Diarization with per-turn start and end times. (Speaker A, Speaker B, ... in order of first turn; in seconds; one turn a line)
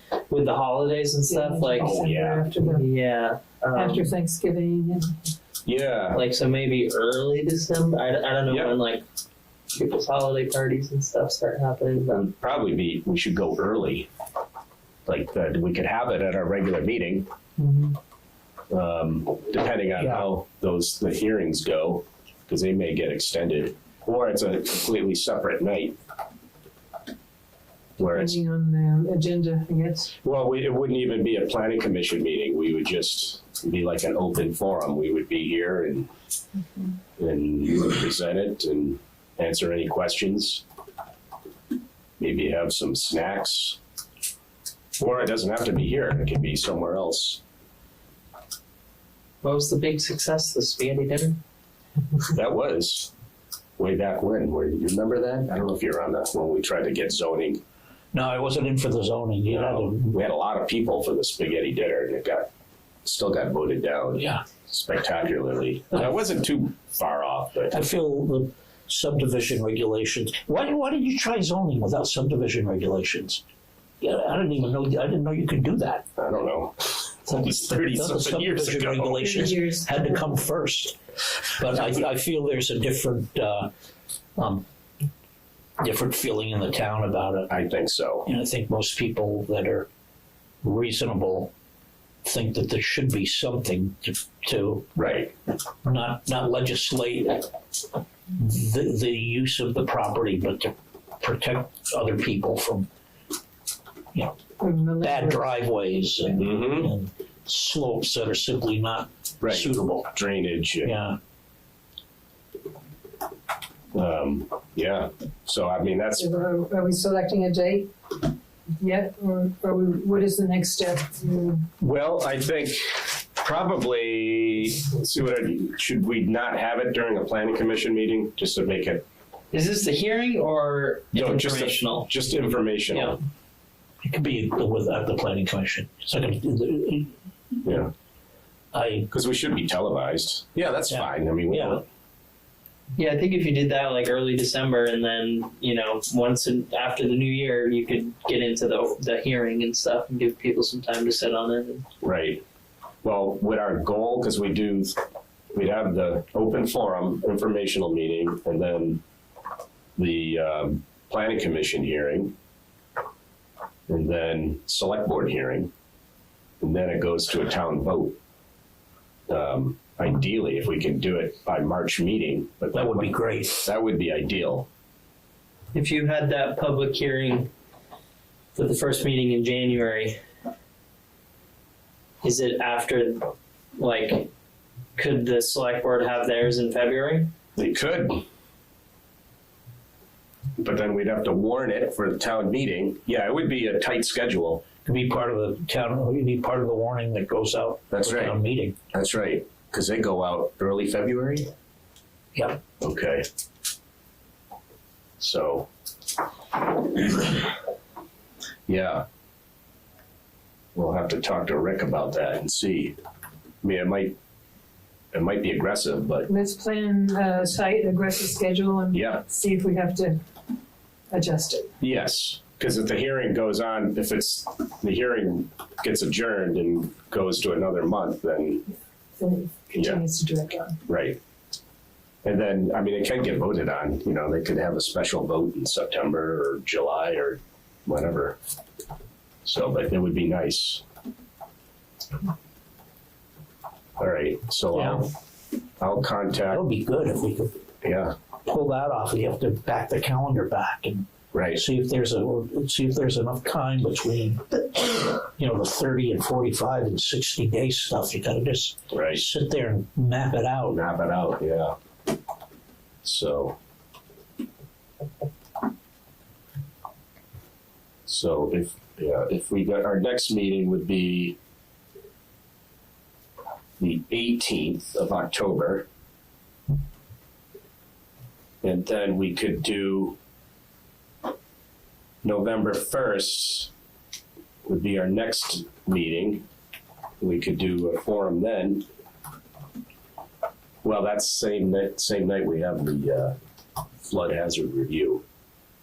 Speaker A: 0.3-2.0
Speaker B: 1.3-2.9
Speaker C: 1.8-2.5
Speaker A: 2.6-4.1
Speaker B: 3.7-5.1
Speaker C: 5.7-6.2
Speaker A: 6.1-9.0
Speaker C: 8.5-8.7
Speaker A: 9.7-12.2
Speaker C: 12.1-14.1
Speaker C: 15.1-17.3
Speaker C: 18.7-26.0
Speaker C: 28.0-28.4
Speaker B: 28.1-30.1
Speaker C: 30.2-36.1
Speaker C: 37.2-40.6
Speaker C: 42.2-43.8
Speaker C: 45.0-47.4
Speaker A: 49.4-51.4
Speaker C: 52.3-53.1
Speaker C: 53.8-57.6
Speaker D: 58.1-60.2
Speaker C: 59.5-62.5
Speaker C: 63.0-67.8
Speaker D: 64.2-64.4
Speaker D: 67.7-73.4
Speaker D: 74.0-76.1
Speaker C: 76.2-79.5
Speaker D: 77.3-81.0
Speaker B: 79.2-80.2
Speaker D: 81.5-83.7
Speaker D: 84.4-84.7
Speaker D: 85.8-87.5
Speaker C: 87.5-88.3
Speaker D: 88.3-89.9
Speaker D: 90.6-91.5
Speaker D: 92.2-95.0
Speaker C: 95.0-95.3
Speaker D: 95.8-97.5
Speaker D: 98.3-102.9
Speaker B: 104.6-105.6
Speaker D: 105.0-110.1
Speaker C: 106.4-106.9
Speaker C: 109.4-111.0
Speaker D: 110.8-111.2
Speaker C: 113.9-116.3
Speaker B: 116.2-117.9
Speaker B: 118.8-121.6
Speaker C: 121.8-129.1
Speaker A: 129.5-132.1
Speaker C: 131.1-133.2
Speaker D: 134.0-137.2
Speaker C: 137.7-137.9
Speaker D: 138.7-139.1
Speaker C: 139.1-141.9
Speaker D: 140.9-141.8
Speaker A: 143.0-151.8
Speaker C: 152.0-152.4
Speaker C: 153.0-154.9
Speaker C: 155.5-159.0
Speaker C: 160.0-162.3
Speaker C: 163.9-165.7
Speaker C: 166.6-168.2
Speaker C: 169.3-174.7
Speaker D: 172.7-173.7
Speaker A: 175.7-177.5
Speaker A: 178.6-180.2
Speaker A: 182.2-184.3
Speaker A: 185.0-187.3
Speaker C: 187.6-188.2
Speaker C: 190.6-194.7
Speaker D: 194.9-198.8
Speaker C: 197.9-198.4
Speaker C: 198.9-201.5
Speaker C: 202.8-203.2
Speaker C: 205.2-205.7
Speaker C: 208.7-209.1
Speaker C: 210.8-213.0
Speaker C: 213.6-214.2
Speaker C: 215.1-216.3
Speaker B: 216.3-220.2
Speaker C: 218.9-219.2
Speaker B: 221.1-221.7
Speaker C: 221.8-228.6
Speaker B: 229.2-230.7
Speaker C: 229.7-230.0
Speaker C: 230.9-231.2
Speaker C: 232.2-238.4
Speaker C: 239.4-240.8
Speaker C: 244.0-245.1
Speaker D: 244.7-245.0
Speaker C: 245.8-246.6
Speaker D: 246.5-247.5
Speaker C: 247.8-248.2
Speaker D: 248.4-260.8
Speaker C: 251.3-251.6
Speaker C: 258.9-259.2
Speaker C: 260.7-261.8
Speaker C: 263.0-263.6
Speaker C: 268.1-271.4
Speaker C: 273.8-275.9
Speaker C: 278.6-280.2
Speaker C: 282.2-283.7
Speaker C: 284.7-286.5
Speaker C: 287.2-288.9
Speaker C: 290.8-293.4
Speaker C: 294.0-295.2